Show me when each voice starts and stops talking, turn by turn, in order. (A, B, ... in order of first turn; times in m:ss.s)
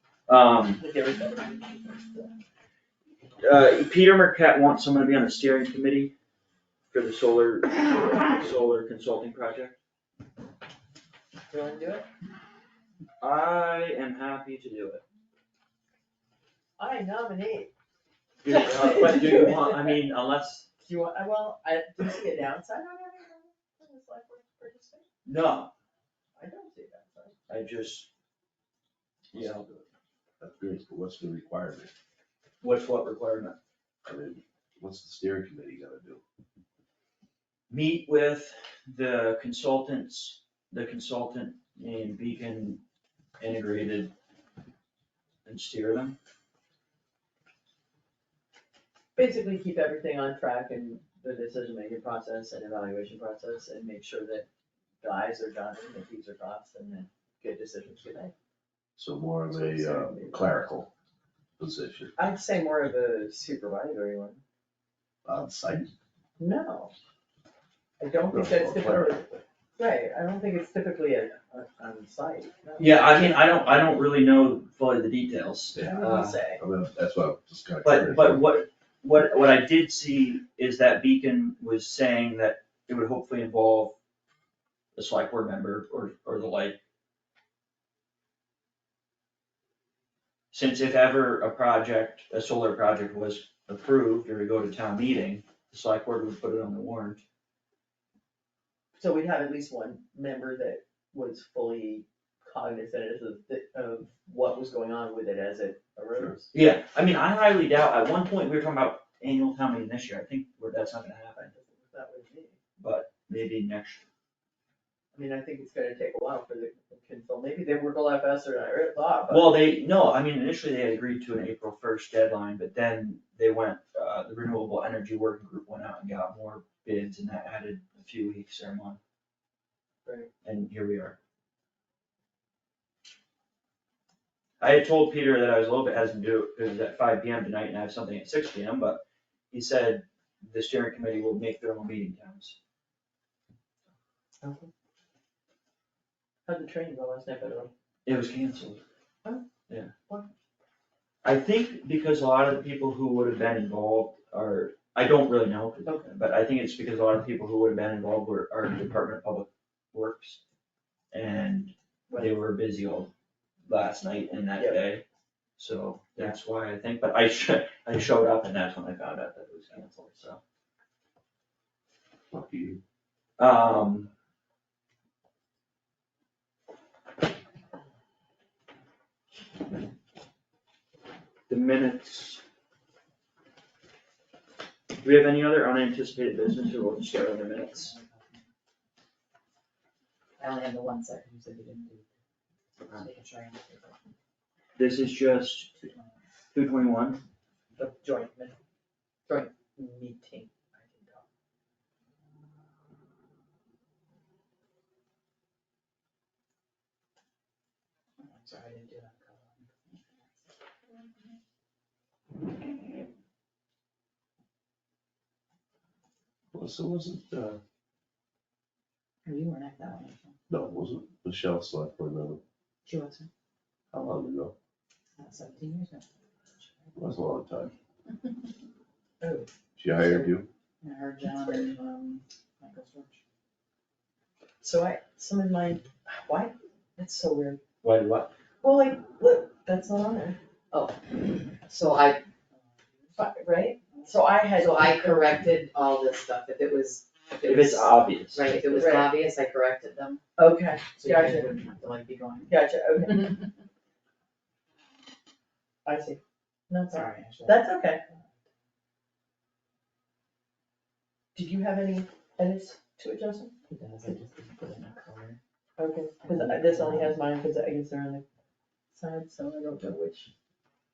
0:00.3-0:00.8 A
0:00.8-0:02.3 B
0:03.4-0:06.1 A
0:06.9-0:09.8 A
0:11.5-0:12.1 B
0:13.2-0:15.0 A
0:16.8-0:17.7 B
0:18.4-0:20.7 A
0:18.4-0:20.0 B
0:20.8-0:25.0 B
0:25.2-0:25.7 A
0:26.4-0:27.4 B
0:27.5-0:28.1 A
0:29.3-0:29.8 C
0:30.4-0:31.9 C
0:32.6-0:33.6 A
0:34.0-0:36.2 C
0:37.7-0:42.8 A
0:43.4-0:44.1 A
0:45.4-0:46.2 A
0:49.2-0:54.4 B
0:55.0-0:58.3 B
0:59.0-1:00.9 C
0:59.5-1:00.6 B
1:01.6-1:02.1 C
1:02.2-1:04.4 B
1:05.2-1:05.9 C
1:06.4-1:06.9 B
1:08.0-1:13.4 B
1:08.3-1:09.2 C
1:12.8-1:16.4 A
1:15.8-1:16.6 B
1:16.6-1:18.4 C
1:17.8-1:24.0 A
1:25.0-1:26.8 A
1:30.5-1:37.2 A
1:39.0-1:46.5 B
1:46.5-1:51.5 A
1:51.5-1:52.6 B
1:52.8-1:54.0 A
1:55.1-1:59.7 B
1:59.3-2:09.0 A
2:10.0-2:10.3 B
2:10.4-2:11.2 A
2:14.6-2:22.6 A
2:24.4-2:24.7 B
2:26.4-2:27.7 B
2:28.0-2:28.8 A
2:31.2-2:40.4 A
2:35.8-2:36.2 B
2:41.1-2:43.1 A
2:43.6-2:45.0 A
2:44.6-2:44.8 B
2:45.6-2:50.4 A
2:52.3-2:52.8 C
2:53.4-2:54.1 A
3:01.5-3:02.4 A
3:05.0-3:07.9 A
3:07.7-3:08.4 D
3:10.4-3:12.1 D
3:12.8-3:14.0 D
3:14.8-3:15.8 A
3:15.7-3:16.1 D
3:16.5-3:17.2 A
3:17.8-3:18.5 D
3:19.3-3:21.2 D
3:28.2-3:30.4 D
3:36.5-3:37.6 C
3:39.2-3:40.4 D
3:40.5-3:42.4 C
3:42.8-3:43.3 D
3:43.9-3:44.5 C
3:45.2-3:46.0 D
3:46.6-3:46.9 D
3:47.0-3:47.7 C
3:49.2-3:50.4 B
3:49.8-3:50.5 C
3:50.8-3:53.2 D
3:54.6-3:57.6 B
3:57.8-3:58.3 A
3:58.6-4:00.4 B
4:00.7-4:01.0 D
4:01.5-4:03.2 D
4:03.2-4:05.4 B
4:03.9-4:10.2 D
4:07.4-4:09.0 A
4:08.8-4:09.1 B
4:10.4-4:11.5 B
4:11.0-4:12.6 D
4:12.5-4:13.4 B
4:15.8-4:18.0 B
4:16.9-4:18.3 D
4:21.3-4:23.6 B
4:23.7-4:25.4 D
4:25.8-4:28.2 B
4:26.2-4:27.2 D
4:28.9-4:30.3 B